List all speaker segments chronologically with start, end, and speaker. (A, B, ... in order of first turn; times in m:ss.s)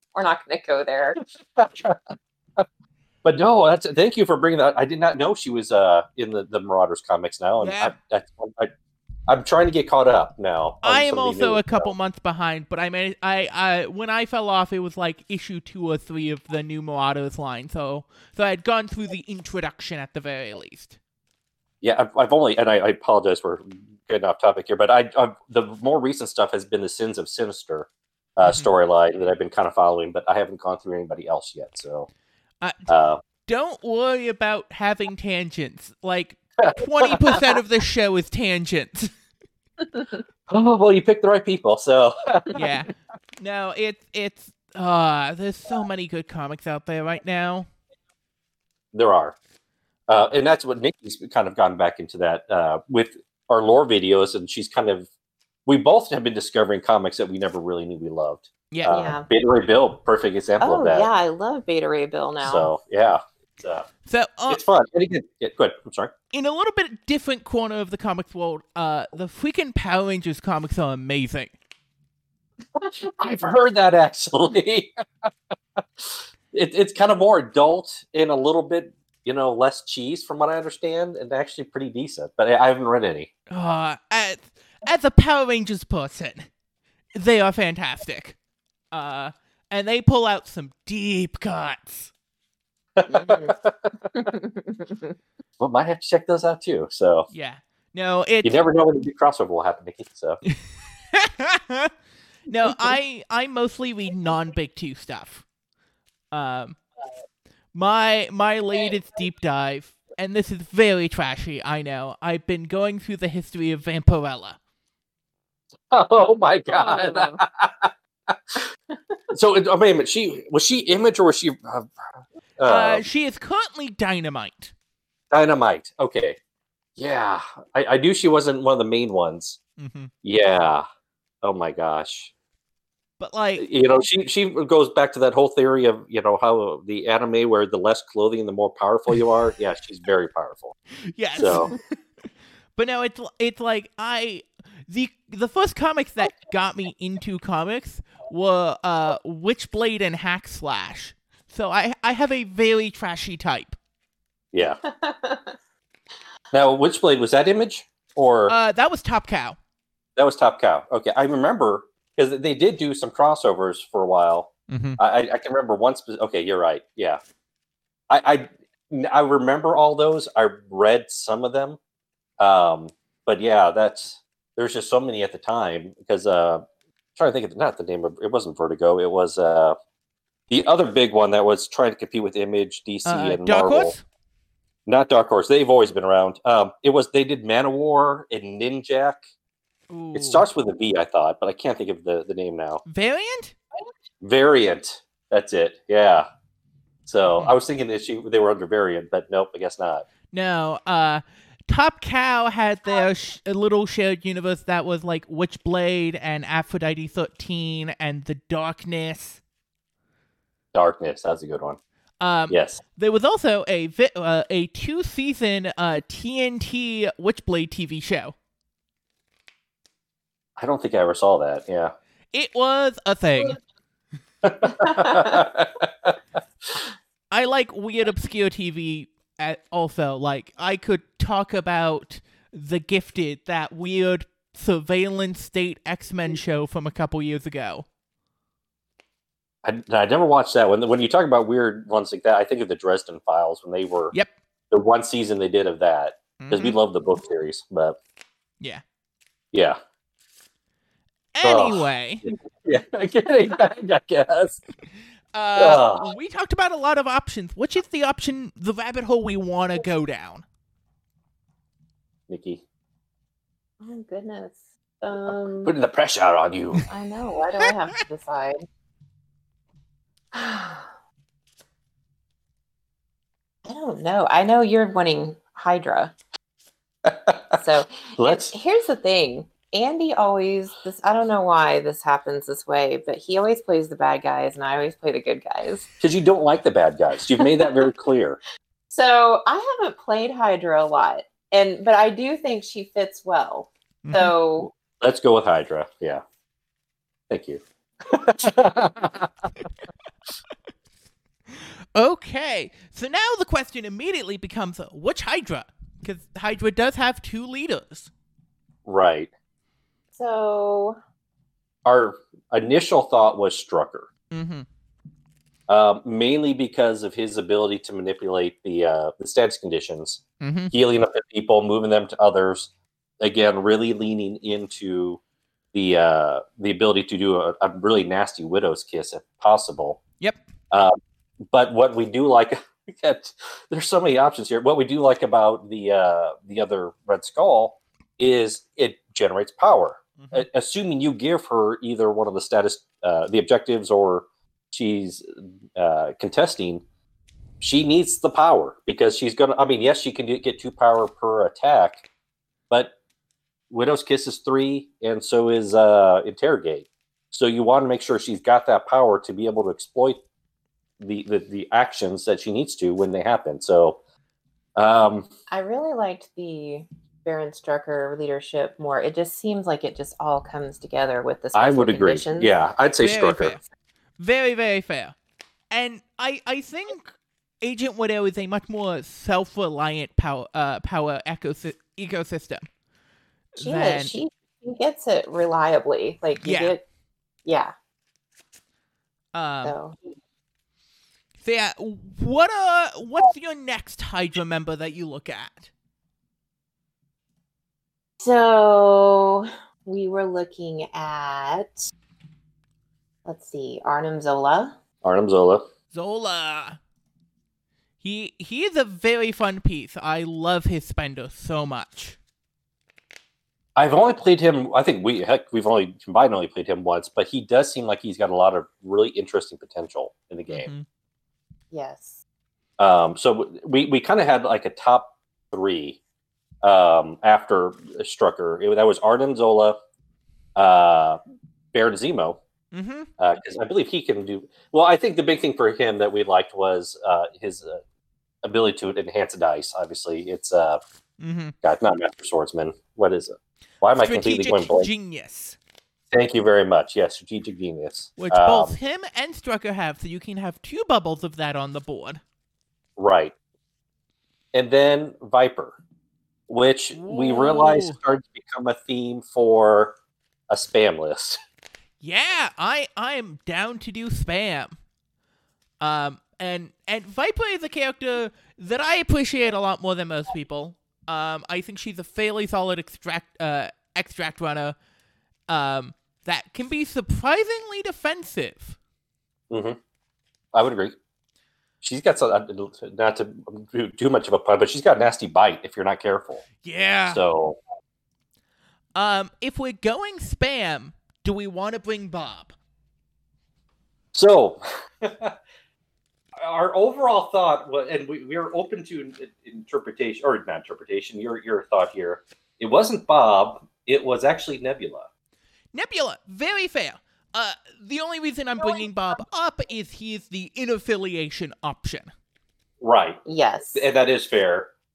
0:00.1-0:01.2 A
0:01.6-0:02.6 B
0:03.2-0:08.7 B
0:07.6-0:07.9 C
0:09.3-0:11.9 B
0:10.8-0:21.0 C
0:21.8-0:32.1 B
0:28.4-0:28.7 C
0:32.6-0:32.9 C
0:32.9-0:33.2 B
0:33.4-0:39.1 C
0:36.6-0:37.4 B
0:40.5-0:42.6 B
0:42.5-0:47.7 C
0:48.9-0:49.4 B
0:50.1-0:55.1 B
0:55.6-1:01.1 B
0:58.7-0:59.0 C
0:58.9-0:59.3 A
1:00.6-1:02.7 A
1:02.4-1:03.8 B
1:04.0-1:04.6 C
1:04.5-1:06.1 B
1:06.3-1:11.5 C
1:12.8-1:23.3 B
1:23.5-1:26.5 C
1:27.1-1:28.4 C
1:28.9-1:32.1 C
1:33.0-1:34.3 B
1:33.1-1:33.5 A
1:34.1-1:35.0 A
1:35.6-1:37.3 B
1:37.3-1:38.6 C
1:38.4-1:40.4 B
1:40.4-1:41.9 C
1:42.5-1:45.4 C
1:46.3-1:46.8 C
1:47.7-1:54.6 C
1:55.9-1:58.6 B
1:56.7-1:57.4 A
1:59.3-2:01.9 B
2:02.6-2:03.0 B
2:02.6-2:04.7 C
2:05.3-2:06.4 B
2:07.0-2:09.6 B
2:09.8-2:10.1 C
2:10.2-2:10.8 B
2:11.4-2:12.3 B
2:13.2-2:13.6 C
2:13.6-2:20.8 B
2:21.1-2:21.8 C
2:21.4-2:21.7 B
2:22.8-2:33.8 C
2:34.5-2:34.8 B
2:34.8-2:35.6 A
2:36.5-2:38.5 B
2:38.5-2:39.6 C
2:40.2-2:47.2 B
2:44.7-2:45.0 C
2:48.1-2:51.8 B
2:52.4-2:56.6 B
2:57.2-2:59.8 B
3:00.5-3:03.9 B
3:03.0-3:04.0 C
3:04.9-3:09.2 B
3:09.9-3:10.4 C
3:10.1-3:12.8 B
3:12.8-3:13.6 C
3:14.2-3:16.2 B
3:17.0-3:20.1 B
3:20.3-3:29.4 C
3:30.7-3:31.8 B
3:32.2-3:38.3 C
3:32.5-3:32.8 B
3:40.6-3:41.9 B
3:42.3-3:43.6 C
3:44.4-3:46.2 B
3:45.0-3:45.3 A
3:47.3-3:57.8 C
3:59.6-4:04.1 B
4:04.7-4:08.0 B
4:06.4-4:06.8 C
4:09.5-4:09.8 B
4:11.3-4:12.2 C
4:11.4-4:14.6 B
4:15.3-4:20.4 C
4:15.6-4:16.1 B
4:22.3-4:22.6 B
4:23.8-4:25.7 A
4:25.6-4:26.8 B
4:26.9-4:28.6 A
4:27.6-4:28.0 C
4:30.3-4:30.8 A
4:33.6-4:36.1 A
4:37.0-4:37.6 B
4:37.6-4:45.9 A
4:38.2-4:38.5 B
4:46.0-4:48.4 B
4:47.4-4:47.9 A
4:48.9-4:54.7 A
4:54.0-4:54.3 C
4:54.7-4:56.2 B
4:57.3-4:59.3 B
5:01.5-5:08.1 C
5:08.8-5:09.3 B
5:10.1-5:11.0 A
5:11.8-5:14.1 B
5:14.3-5:14.6 C
5:15.7-5:25.2 B
5:20.4-5:20.7 C
5:25.7-5:30.0 B
5:30.7-5:31.0 B
5:31.5-5:46.8 B
5:40.2-5:40.4 C
5:47.6-5:52.0 B
5:53.7-6:00.2 B
6:01.0-6:04.0 B
6:04.8-6:05.3 B
6:05.5-6:12.5 A
6:11.5-6:13.6 B
6:13.0-6:13.6 C
6:14.2-6:15.1 C
6:15.7-6:22.7 C
6:23.6-6:24.2 C
6:23.6-6:26.8 A
6:26.4-6:26.7 C
6:27.4-6:27.7 A
6:29.3-6:29.8 C
6:29.6-6:30.0 A
6:31.4-6:35.7 C
6:38.2-6:41.9 A
6:43.2-6:44.8 A
6:45.0-6:45.6 B
6:45.9-6:46.8 C
6:48.0-6:52.2 C
6:53.8-7:00.7 B
7:00.5-7:00.8 C
7:01.7-7:02.2 A
7:02.8-7:06.0 B
7:06.6-7:09.8 B
7:10.6-7:11.2 B
7:11.7-7:12.4 B
7:12.7-7:13.1 C
7:13.2-7:17.8 B
7:18.4-7:20.8 B
7:21.2-7:21.5 C
7:21.6-7:24.9 B
7:23.9-7:25.6 C
7:26.1-7:28.7 B
7:28.2-7:32.2 C
7:33.0-7:33.3 B
7:34.5-7:35.8 B
7:36.5-7:39.9 B
7:36.9-7:38.0 C
7:40.5-7:41.4 B
7:42.0-7:44.8 C
7:45.8-7:54.8 C
7:55.5-7:58.8 C
7:59.5-7:59.8 B
8:00.5-8:01.0 B
8:01.8-8:06.4 B
8:06.6-8:07.2 C
8:07.1-8:07.6 B
8:09.0-8:12.5 C
8:14.1-8:15.4 B
8:16.4-8:25.1 B
8:25.7-8:32.1 C
8:32.8-8:33.2 B
8:33.2-8:33.8 A
8:33.7-8:34.7 B